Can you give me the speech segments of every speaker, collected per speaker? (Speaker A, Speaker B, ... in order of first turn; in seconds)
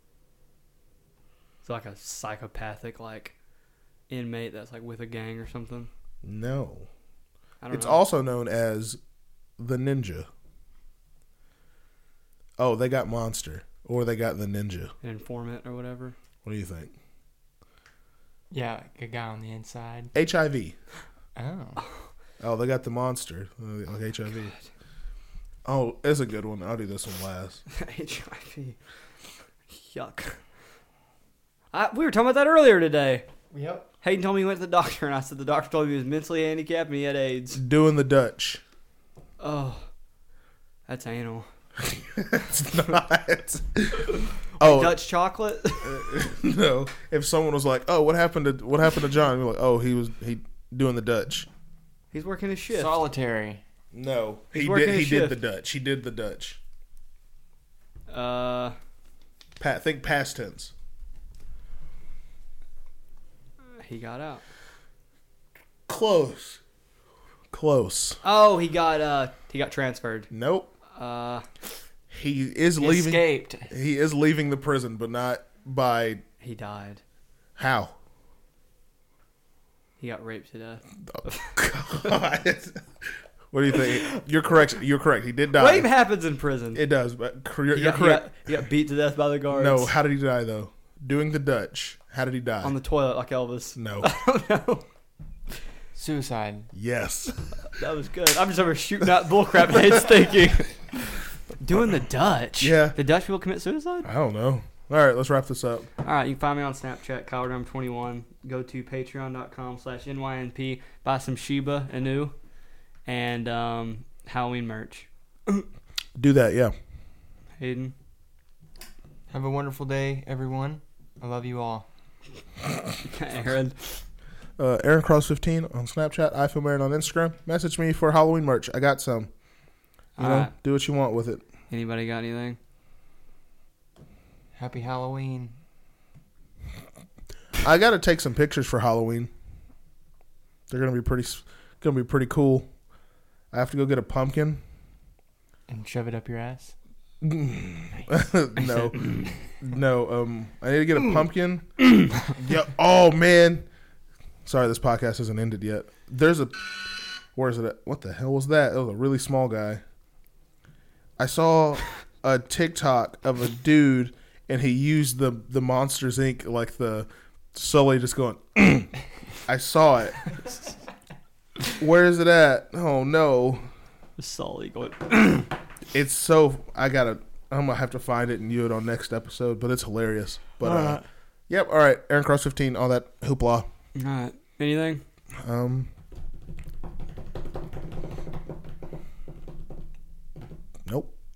Speaker A: 1.6-3.4, 4.1-5.9, 7.6-8.0, 15.0-16.2, 27.7-28.8, 29.7-30.4, 31.7-33.3, 34.0-37.6, 39.4-39.9, 40.9-41.5, 44.6-46.1, 52.1-53.0, 54.5-55.4, 58.1-58.8, 63.8-64.4, 68.2-70.3, 71.0-71.5, 76.4-77.0, 80.0-81.6, 83.7-84.2, 85.5-86.8, 87.7-89.9, 92.6-94.9, 97.7-104.1, 106.0-112.3, 113.0-115.7, 117.6-117.9, 123.0-124.0, 130.2-130.5, 131.7-132.6, 148.6-149.4, 174.2-175.5, 183.9-185.0
Speaker B: 6.2-6.9, 7.7-9.0, 9.6-10.3, 12.6-14.9, 16.4-16.9, 20.1-20.8, 22.4-24.5, 25.6-27.6, 37.5-38.6, 41.8-45.0, 45.8-51.5, 53.9-56.6, 59.6-60.7, 65.9-66.6, 67.5-68.2, 70.3-70.7, 72.1-76.2, 77.6-77.9, 81.1-85.9, 86.7-88.3, 89.5-92.8, 93.8-94.1, 96.7-97.4, 99.7-100.1, 102.6-103.0, 104.0-105.9, 116.2-116.7, 124.6-129.3, 130.2-131.4, 137.6-139.3, 140.7-142.7, 143.5-144.6, 147.2-153.7, 154.4-156.6, 157.3-159.8, 161.2-168.9, 169.5-170.3, 171.7-173.7, 175.9-183.7, 185.4-185.9, 190.9-191.1
Speaker C: 18.5-20.1, 21.4-21.8, 33.5-33.9, 52.7-53.6, 72.8-73.7, 95.9-96.7, 119.3-121.9, 134.6-135.6, 145.7-146.7, 180.6-181.0